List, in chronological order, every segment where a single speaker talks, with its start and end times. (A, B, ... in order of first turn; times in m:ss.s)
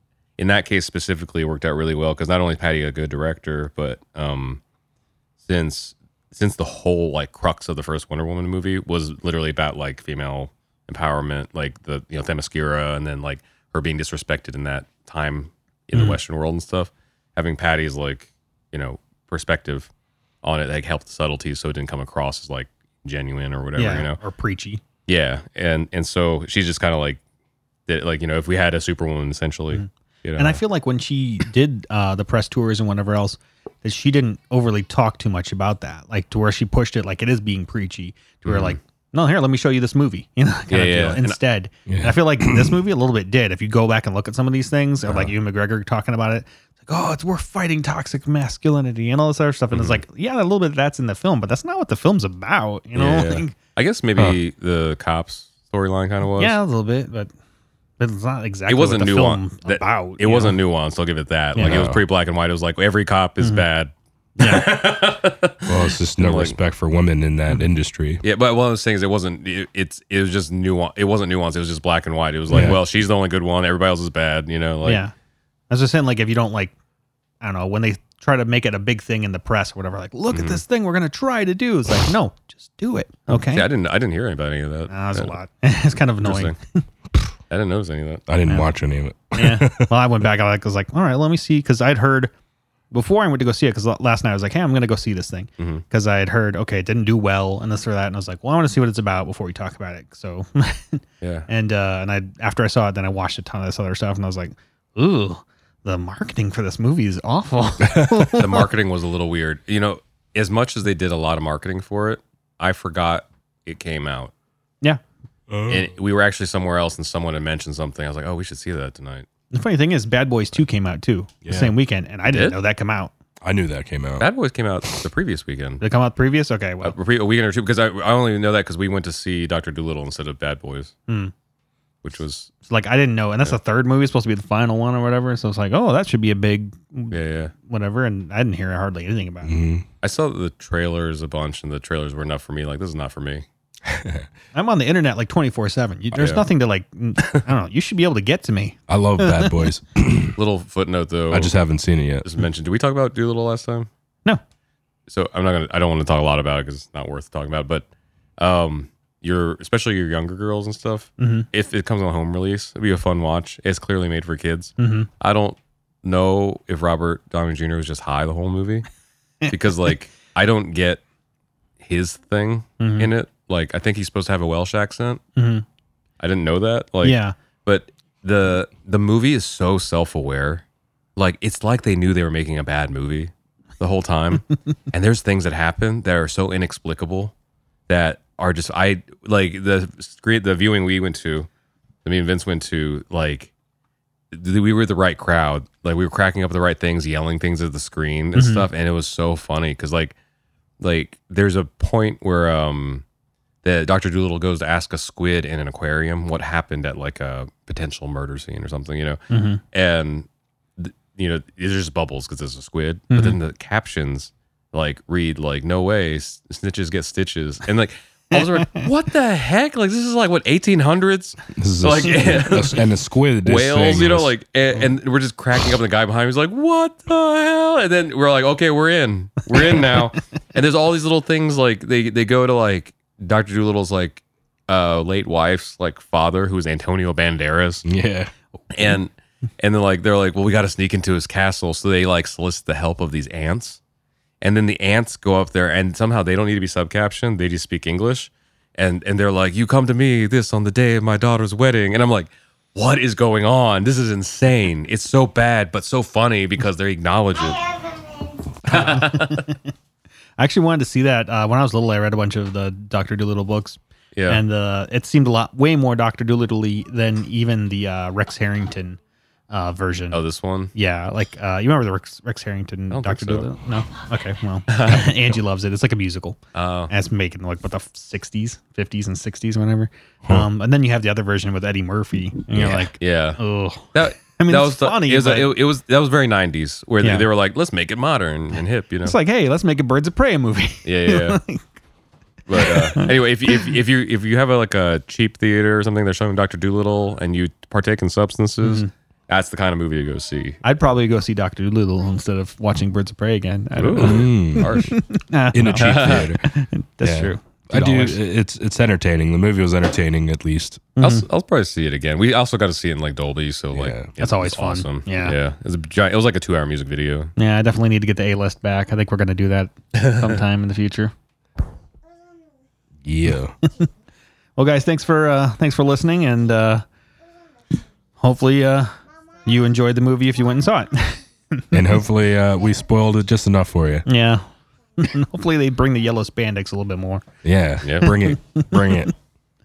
0:00.4-0:04.6 A
0:05.4-0:19.9 A
0:20.4-0:24.2 A
0:23.8-0:24.8 B
0:25.1-0:27.2 A
0:27.9-0:30.6 A
0:29.7-0:53.5 B
0:38.5-0:38.8 A
0:40.7-0:41.4 A
0:41.9-0:42.8 C
0:45.1-0:45.3 A
0:49.7-0:50.0 A
0:53.0-0:56.6 A
0:56.4-0:57.3 B
0:58.0-1:00.6 B
0:58.7-1:06.6 A
1:01.6-1:01.9 B
1:01.6-1:02.0 C
1:04.4-1:04.8 B
1:05.7-1:08.2 C
1:08.2-1:15.0 A
1:12.5-1:12.8 C
1:14.8-1:15.1 B
1:15.7-1:16.7 B
1:17.4-1:23.7 B
1:20.3-1:20.6 A
1:23.3-1:25.4 A
1:24.9-1:26.8 B
1:26.2-1:26.6 A
1:27.5-1:28.2 A
1:28.3-1:29.9 C
1:29.4-1:32.3 B
1:32.9-1:48.7 B
1:35.6-1:35.8 A
1:41.2-1:41.5 A
1:47.8-1:48.4 C
1:48.4-1:54.3 A
1:55.5-1:55.9 C
1:55.7-1:59.3 A
1:59.5-2:03.1 B
2:01.4-2:01.7 C
2:02.3-2:02.6 A
2:03.4-2:04.3 C
2:04.2-2:05.8 A
2:05.8-2:07.0 B
2:06.8-2:10.9 A
2:11.1-2:11.3 B
2:12.0-2:12.5 A
2:12.7-2:19.6 B
2:17.1-2:17.5 A
2:19.4-2:19.9 C
2:20.0-2:23.5 A
2:23.9-2:24.3 C
2:24.5-2:29.7 B
2:26.1-2:26.5 A
2:28.9-2:30.4 C
2:30.4-2:31.5 A
2:31.3-2:32.3 C
2:32.2-2:33.9 A
2:35.1-2:48.9 A
2:41.2-2:41.5 B
2:44.8-2:45.1 B
2:49.5-2:51.0 A
2:51.8-2:55.2 A
2:52.8-2:53.1 B
2:55.4-2:55.6 B
2:56.2-3:00.6 A
2:57.0-2:57.3 B
3:01.2-3:07.3 A
3:07.9-3:11.5 A
3:12.0-3:13.5 A
3:14.3-3:20.2 A
3:18.4-3:18.7 B
3:20.8-3:23.0 A
3:23.6-3:42.8 A
3:29.3-3:29.6 B
3:33.1-3:33.4 B
3:38.3-3:38.9 B
3:41.6-3:44.3 C
3:43.4-3:57.8 A
3:57.8-3:58.3 C
3:58.7-4:03.8 A
4:04.4-4:17.6 A
4:18.6-4:19.5 A
4:18.7-4:19.6 B
4:20.4-4:29.0 B
4:24.2-4:24.4 A
4:29.5-4:30.2 B
4:30.1-4:30.7 A
4:30.8-4:36.4 B
4:32.9-4:33.5 A
4:34.7-4:35.4 A
4:36.5-4:36.9 A
4:36.9-4:45.5 B
4:42.5-4:43.4 A
4:43.9-4:49.2 A
4:47.0-4:47.3 B
4:49.0-4:51.6 B
4:50.8-4:51.4 A
4:52.5-5:00.6 A
4:52.6-4:53.7 B
4:58.6-4:58.9 B
5:00.6-5:08.2 B
5:03.8-5:05.0 A
5:04.0-5:04.8 C
5:05.5-5:06.5 C
5:05.7-5:06.3 A
5:07.0-5:10.9 C
5:11.0-5:11.3 B
5:11.0-5:17.3 A
5:13.7-5:14.1 C
5:14.2-5:15.4 B
5:17.4-5:21.1 B
5:20.0-5:20.4 A
5:23.0-5:23.6 C
5:23.6-5:23.9 B
5:24.6-5:26.8 B
5:28.2-5:28.9 B
5:29.4-5:31.7 B
5:31.7-5:34.1 C
5:34.1-5:34.4 B
5:35.0-5:37.2 B
5:37.4-5:39.1 C
5:37.8-5:38.1 A
5:38.0-5:39.1 B